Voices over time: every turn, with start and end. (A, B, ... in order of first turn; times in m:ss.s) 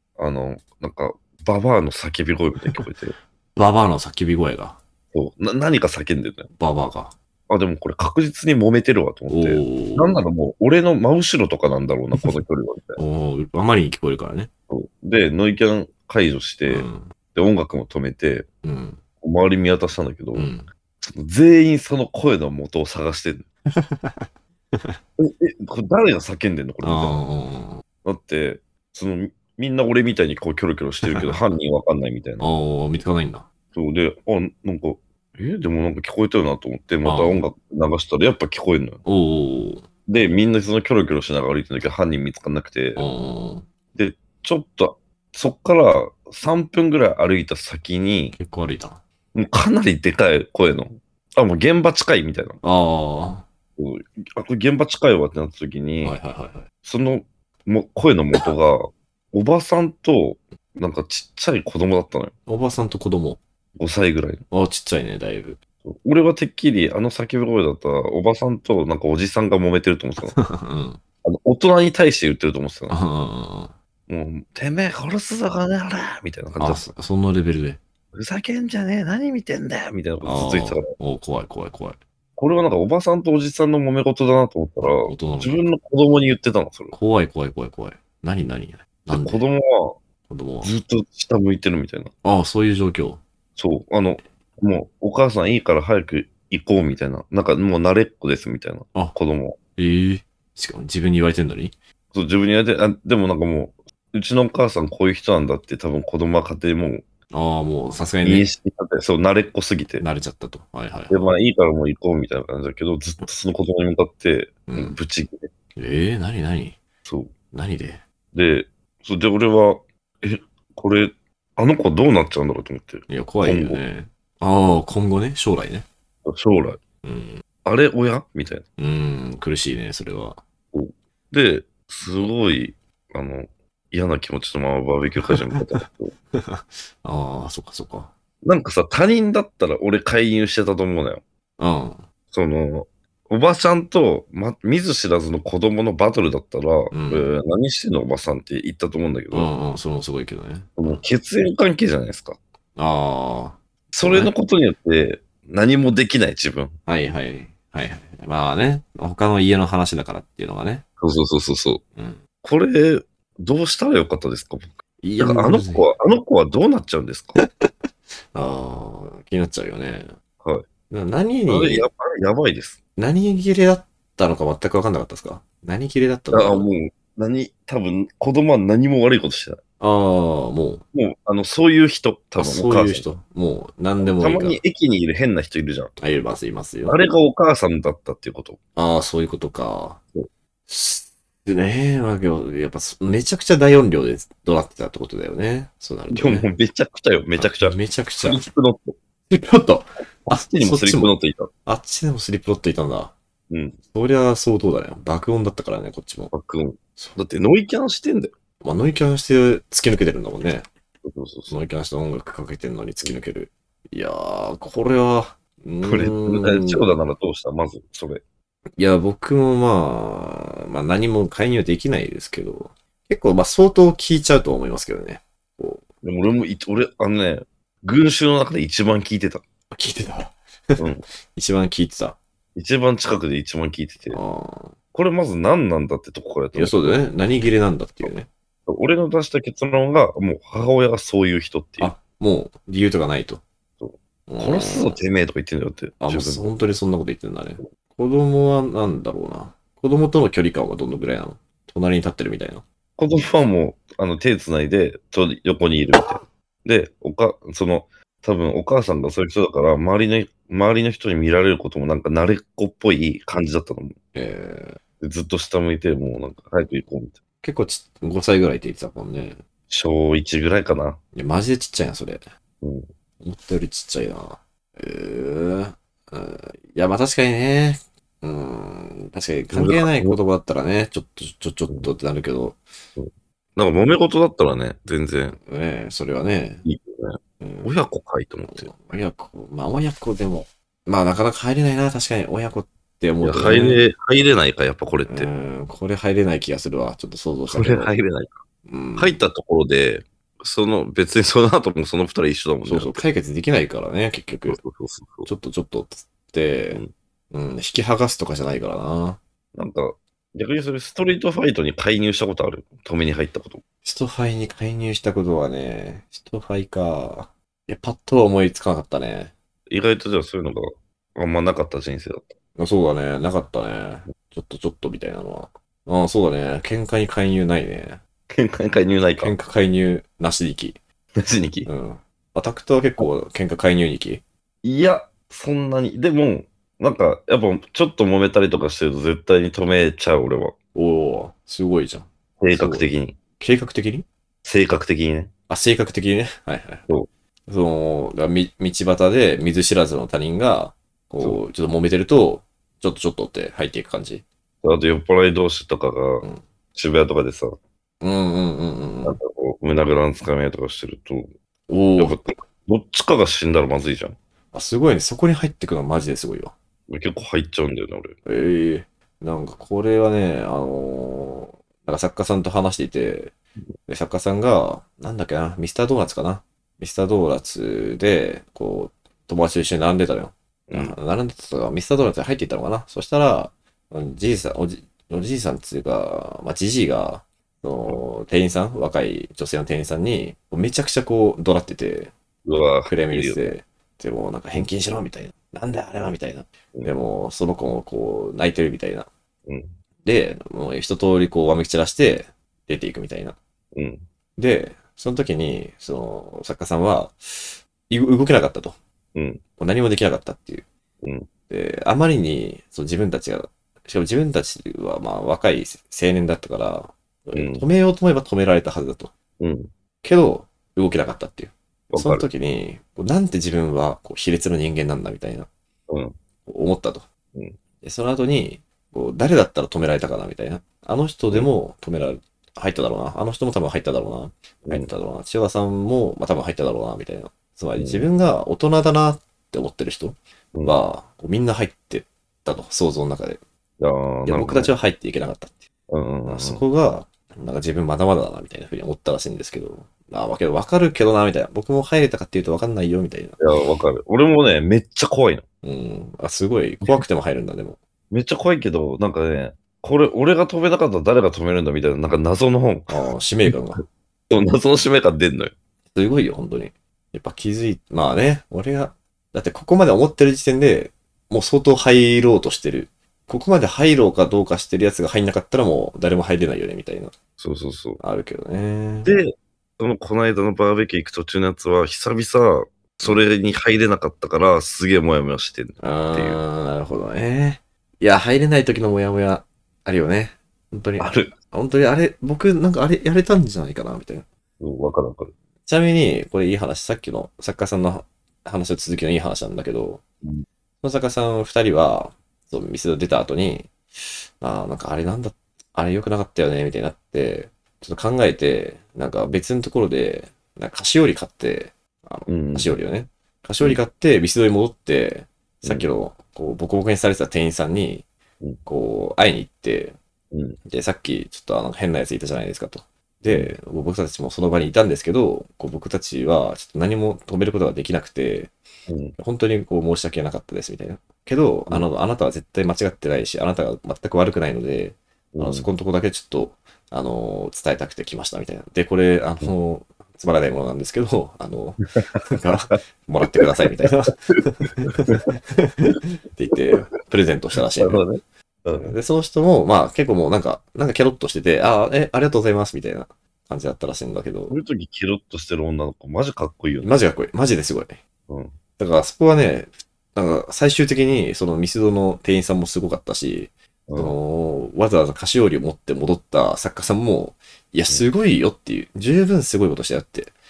0:00.2-0:03.1 A
0:03.6-0:04.8 B
0:05.1-0:06.5 A
0:06.6-0:07.1 B
0:07.5-0:13.0 A
0:09.3-0:10.2 B
0:13.0-0:14.5 B
0:14.7-0:18.5 A
0:16.7-0:17.1 B
0:18.6-0:19.0 B
0:19.2-0:20.5 A
0:20.3-0:20.7 B
0:21.0-0:23.5 A
0:23.8-0:25.0 B
0:25.2-0:27.2 A
0:26.8-0:27.8 B
0:28.0-0:32.5 A
0:31.0-0:31.4 B
0:32.4-0:33.4 B
0:33.7-0:39.0 A
0:37.0-0:37.4 B
0:39.0-0:39.9 B
0:40.1-0:43.0 A
0:43.0-0:43.7 B
0:43.9-0:48.4 A
0:48.3-0:49.0 B
0:49.3-0:52.6 A
0:52.6-0:53.4 B
0:53.8-0:56.2 A
0:56.0-0:56.6 B
0:56.8-1:02.3 A
1:02.5-1:03.4 B
1:03.8-1:04.4 A
1:04.5-1:05.6 B
1:05.8-1:10.4 A
1:10.2-1:11.0 B
1:11.2-1:13.0 A
1:12.9-1:13.7 B
1:14.1-1:16.9 A
1:16.6-1:17.8 B
1:18.1-1:20.9 A
1:20.2-1:22.0 B
1:22.4-1:27.0 A
1:24.8-1:25.6 B
1:26.9-1:29.4 B
1:29.1-1:30.0 A
1:30.3-1:30.7 B
1:30.6-1:32.1 A
1:32.2-1:33.2 B
1:33.6-1:39.6 A
1:39.8-1:41.8 B
1:42.1-1:47.0 A
1:47.3-1:48.5 B
1:48.2-1:50.0 A
1:50.0-1:51.3 B
1:51.1-1:55.5 A
1:54.7-1:55.0 B
1:55.8-1:56.8 B
1:57.0-1:57.3 A
1:57.5-1:58.0 B
1:58.3-2:03.8 A
2:03.1-2:05.9 B
2:06.2-2:06.8 A
2:07.0-2:07.4 B
2:07.6-2:08.6 A
2:08.8-2:10.4 B
2:10.7-2:16.2 A
2:15.2-2:18.1 B
2:18.4-2:21.2 A
2:21.6-2:22.0 B
2:22.3-2:29.5 A
2:26.9-2:27.3 B
2:29.3-2:31.0 B
2:30.8-2:32.4 A
2:32.8-2:34.3 B
2:33.9-2:36.8 A
2:36.9-2:40.8 B
2:41.0-2:41.8 A
2:42.4-2:47.4 A
2:45.0-2:45.9 B
2:47.4-2:47.7 B
2:48.3-2:50.1 B
2:50.9-2:51.9 B
2:51.5-2:52.8 A
2:53.0-2:56.7 B
2:56.3-2:59.6 A
2:59.8-3:00.8 B
3:00.9-3:03.1 A
3:02.4-3:04.6 B
3:04.0-3:05.9 A
3:06.0-3:07.0 B
3:06.8-3:08.6 A
3:08.8-3:10.0 B
3:10.7-3:16.5 B
3:16.1-3:19.0 A
3:17.4-3:18.5 B
3:19.3-3:21.1 B
3:20.3-3:21.5 A
3:21.7-3:23.2 B
3:23.5-3:23.8 A
3:23.9-3:26.3 B
3:26.3-3:28.3 A
3:28.6-3:30.7 B
3:31.0-3:31.6 A
3:31.5-3:36.9 B
3:35.8-3:38.2 A
3:38.8-3:45.8 B
3:46.0-3:49.4 A
3:49.7-3:52.2 B
3:50.8-3:51.0 A
3:52.6-3:54.2 A
3:54.1-3:54.7 B
3:54.9-3:56.9 A
3:56.5-3:58.3 B
3:58.7-4:01.9 A
4:01.8-4:03.4 B
4:03.8-4:06.5 A
4:04.3-4:05.0 B
4:06.0-4:12.6 B
4:13.0-4:24.0 A
4:24.2-4:24.8 B
4:25.0-4:27.2 A
4:27.4-4:29.4 B
4:29.7-4:31.0 A
4:31.2-4:32.2 B
4:32.6-4:32.9 A
4:33.2-4:42.6 B
4:39.5-4:40.2 A
4:43.0-4:45.4 A
4:45.5-4:46.6 B
4:46.6-4:48.7 A
4:47.4-4:47.7 B
4:48.5-4:53.8 B
4:53.2-4:55.3 A
4:55.1-4:57.9 B
4:57.5-4:58.4 A
4:58.7-4:59.3 B
4:59.0-5:03.0 A
5:02.6-5:04.6 B
5:04.5-5:05.3 A
5:05.2-5:09.2 B
5:09.6-5:13.6 A
5:13.8-5:19.3 B
5:19.7-5:22.4 A
5:22.6-5:28.0 B
5:28.3-5:29.3 A
5:29.2-5:30.8 B
5:31.2-5:31.7 A
5:31.7-5:34.2 B
5:34.6-5:40.6 A
5:40.7-5:44.1 B
5:42.4-5:43.2 A
5:44.4-5:45.3 A
5:45.5-5:46.9 B
5:47.5-5:54.2 B
5:54.6-5:57.6 A
5:58.0-5:59.2 B
5:59.0-6:01.3 A
6:01.7-6:02.3 B
6:02.0-6:04.2 A
6:04.5-6:06.6 B
6:06.9-6:08.2 A
6:08.2-6:13.3 B
6:13.9-6:32.1 B
6:20.7-6:20.9 A
6:32.4-6:33.5 A
6:32.8-6:39.1 B
6:39.5-6:39.7 A
6:40.0-6:43.4 B
6:43.7-6:44.0 A
6:44.4-6:48.8 B
6:49.2-6:49.4 A
6:49.6-6:50.7 B
6:51.0-6:51.3 A
6:51.5-6:59.1 B
6:57.3-6:57.7 A
6:59.4-6:59.7 A
7:00.0-7:05.5 B
7:01.9-7:02.3 A
7:05.9-7:06.2 A
7:06.4-7:07.1 B
7:07.8-7:23.4 B
7:17.8-7:18.1 A
7:23.8-7:24.7 A
7:24.2-7:25.6 B
7:25.9-7:26.6 A
7:26.2-7:33.4 B
7:33.4-7:35.4 A
7:35.6-7:37.8 B
7:38.1-7:42.9 A
7:42.9-7:43.8 B
7:44.3-7:45.5 A
7:45.9-7:57.1 B
7:57.4-7:58.0 A
7:58.0-7:59.2 B
7:59.0-8:06.4 A
8:05.8-8:14.2 B
8:11.0-8:11.3 A
8:14.6-8:15.3 A
8:15.6-8:20.0 B
8:20.8-8:23.8 B
8:24.4-8:38.1 B
8:32.3-8:32.8 A
8:35.6-8:35.9 A
8:38.6-8:40.0 B
8:40.3-8:40.6 A
8:40.7-8:48.5 B
8:43.3-8:43.5 A
8:48.9-8:49.2 A
8:49.2-9:08.0 B
8:55.3-8:55.7 A
9:03.4-9:03.9 A
9:07.8-9:08.9 A
9:08.8-9:14.6 B
9:14.5-9:16.9 A
9:16.8-9:18.0 B
9:18.3-9:18.6 A
9:18.8-9:30.4 B
9:23.9-9:24.2 A